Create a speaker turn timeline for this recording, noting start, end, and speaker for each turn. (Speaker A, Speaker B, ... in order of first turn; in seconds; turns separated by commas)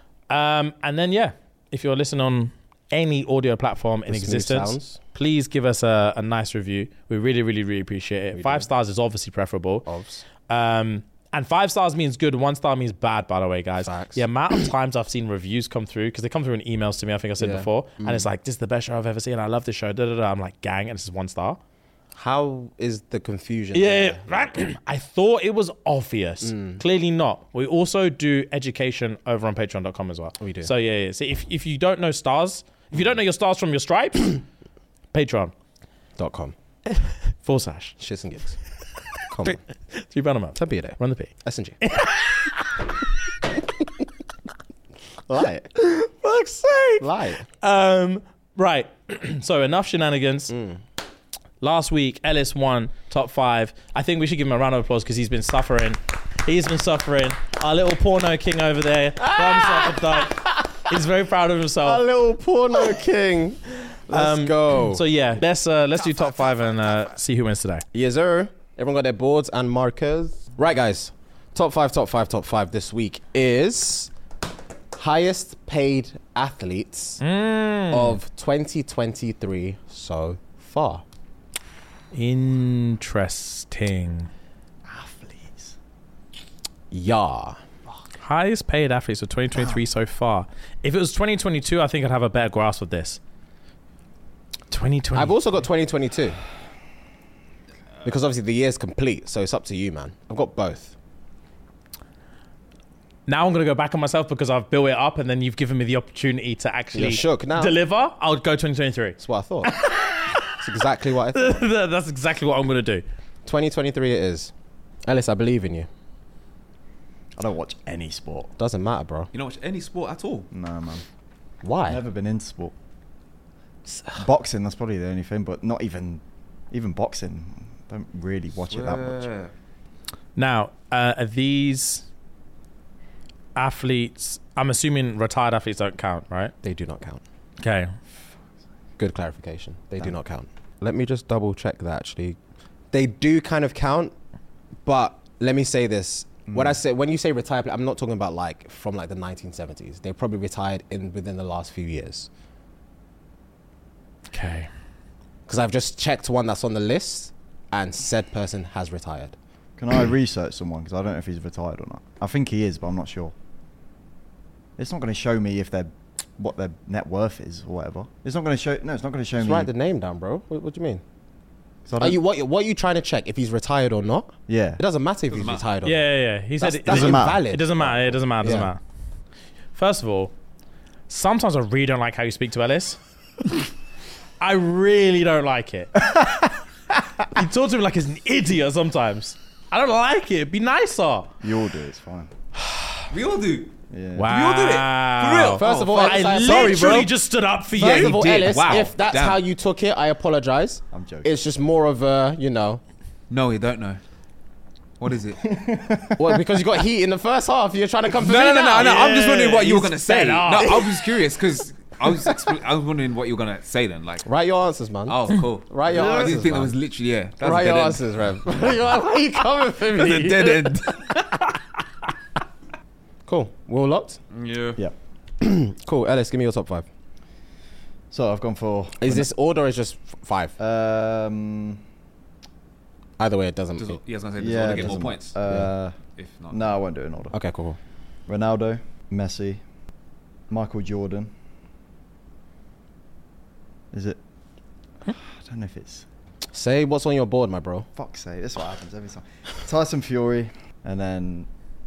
Speaker A: 0.3-9.8, Speaker B: 4.1-5.0, Speaker B: 8.3-8.7, Speaker B: 9.8-10.2, Speaker A: 10.5-21.6, Speaker B: 13.8-14.7, Speaker B: 17.4-18.3, Speaker B: 22.1-24.6, Speaker A: 23.7-34.4, Speaker B: 26.4-26.8, Speaker B: 30.4-30.7, Speaker A: 35.1-35.5, Speaker B: 36.2-36.5, Speaker A: 37.4-38.0, Speaker B: 38.0-38.6, Speaker B: 39.2-39.6, Speaker A: 39.4-41.3, Speaker B: 40.5-41.8, Speaker A: 41.8-42.8, Speaker B: 45.3-45.8, Speaker A: 45.8-47.0, Speaker B: 47.0-47.4, Speaker A: 47.6-50.5, Speaker B: 50.5-50.8, Speaker A: 51.6-62.0, Speaker B: 59.2-60.9, Speaker B: 61.8-65.0, Speaker A: 63.9-67.8, Speaker B: 67.9-74.1, Speaker B: 74.9-77.2, Speaker A: 77.2-78.2, Speaker B: 77.9-81.0, Speaker A: 82.1-84.3, Speaker C: 84.9-85.7, Speaker B: 86.9-87.6, Speaker A: 88.2-93.2, Speaker A: 94.7-95.6, Speaker B: 95.1-96.4, Speaker B: 98.0-100.9, Speaker A: 103.3-110.5, Speaker B: 106.9-107.8, Speaker B: 109.2-109.7, Speaker B: 110.5-111.6, Speaker A: 111.3-113.0, Speaker B: 113.4-114.5, Speaker B: 115.0-115.9, Speaker C: 117.4-118.5, Speaker B: 118.6-119.3, Speaker D: 119.3-120.5, Speaker C: 120.5-121.0, Speaker B: 121.6-122.0, Speaker C: 121.9-122.7, Speaker C: 124.1-129.3, Speaker D: 128.6-129.5, Speaker A: 130.3-132.1, Speaker A: 133.6-136.5, Speaker B: 136.6-137.2, Speaker A: 137.6-137.9, Speaker B: 139.0-142.4, Speaker B: 142.9-144.1, Speaker B: 144.8-152.3, Speaker C: 146.5-146.8, Speaker A: 154.3-154.7, Speaker B: 155.5-159.3, Speaker C: 159.8-163.3, Speaker C: 164.8-169.7, Speaker B: 169.4-171.0, Speaker C: 171.8-172.2, Speaker B: 172.0-176.1, Speaker C: 174.5-174.8, Speaker D: 175.3-175.7, Speaker A: 175.8-178.8, Speaker B: 176.6-178.7, Speaker C: 176.8-177.5, Speaker A: 179.7-180.3, Speaker A: 181.1-183.0, Speaker A: 184.4-186.1, Speaker A: 187.3-191.3, Speaker C: 191.4-192.3, Speaker D: 193.1-196.9, Speaker C: 193.9-194.3, Speaker A: 194.2-198.8, Speaker B: 195.6-197.1, Speaker B: 197.7-202.8, Speaker D: 197.8-199.4, Speaker C: 200.9-201.3, Speaker D: 203.3-204.0, Speaker D: 205.0-205.6, Speaker C: 205.4-206.4, Speaker B: 206.2-209.1, Speaker D: 208.1-214.3, Speaker A: 208.8-210.8, Speaker B: 210.5-210.9, Speaker B: 214.2-216.7, Speaker D: 215.1-218.6, Speaker C: 215.9-216.3, Speaker B: 217.4-220.8, Speaker D: 219.9-221.2, Speaker B: 223.3-224.2, Speaker D: 224.3-224.8, Speaker B: 225.4-226.9, Speaker C: 228.1-229.3, Speaker B: 229.0-230.5, Speaker C: 230.6-231.8, Speaker B: 233.2-234.0, Speaker D: 233.8-235.3, Speaker C: 234.4-235.9, Speaker D: 236.2-236.8, Speaker C: 236.5-237.3, Speaker B: 237.3-237.8, Speaker C: 238.3-239.6, Speaker C: 240.5-241.3, Speaker C: 243.9-244.2, Speaker C: 245.1-246.0, Speaker B: 246.5-247.9, Speaker C: 247.9-251.5